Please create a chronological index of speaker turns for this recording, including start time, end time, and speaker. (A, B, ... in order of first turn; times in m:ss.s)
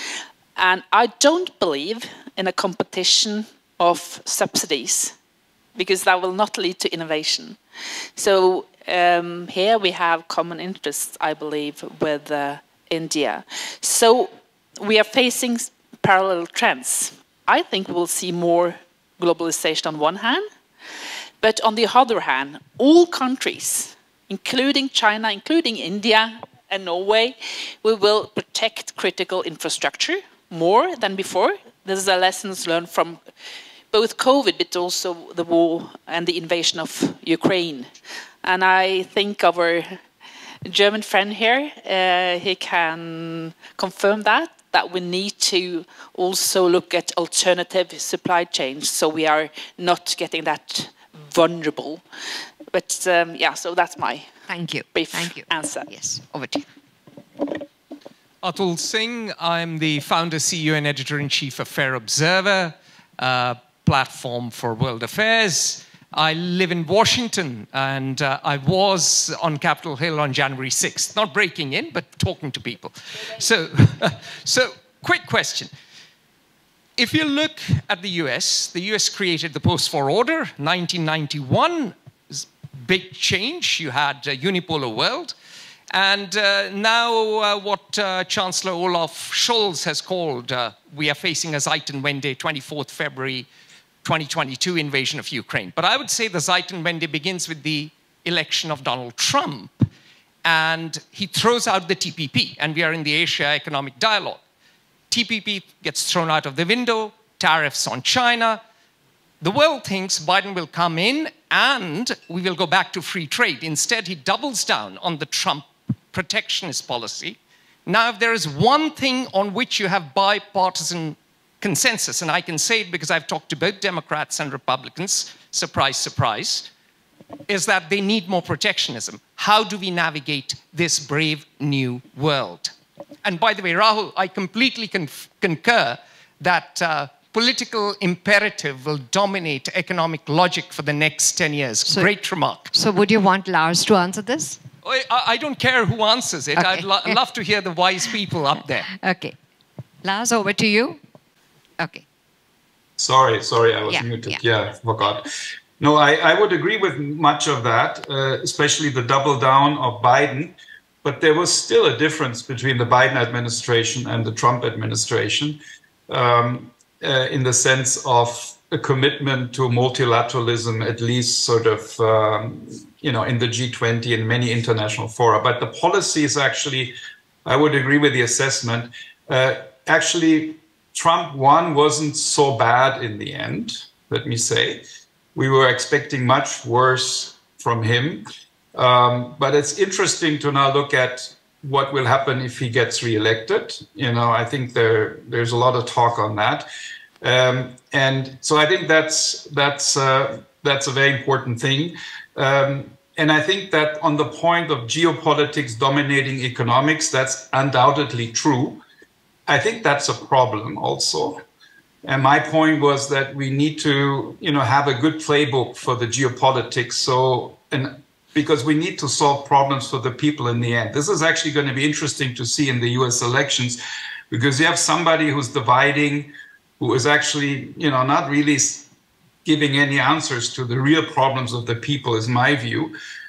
0:00.6-0:05.1 A
0:05.7-0:07.6 A
0:08.2-0:20.4 A
0:21.4-0:33.2 A
0:33.9-0:40.0 A
0:40.6-0:52.0 A
0:52.7-0:54.3 A
0:54.5-0:56.6 B
0:54.9-0:55.9 A
0:58.4-1:15.7 C
1:17.0-1:25.3 C
1:25.9-1:33.5 C
1:34.0-1:39.9 C
1:40.4-1:44.4 C
1:45.1-1:48.6 C
1:49.4-2:06.7 C
2:07.5-2:22.7 C
2:21.8-2:22.1 B
2:22.7-2:24.6 B
2:24.8-2:28.9 C
2:26.6-2:27.2 B
2:28.9-2:29.4 B
2:30.0-2:31.0 B
2:31.8-2:32.0 B
2:33.0-2:35.2 D
2:33.9-2:34.4 B
2:35.8-3:04.8 D
3:05.3-3:16.7 D
3:17.2-3:28.8 D
3:29.5-3:31.4 D
3:32.0-3:48.9 D
3:49.4-3:52.9 D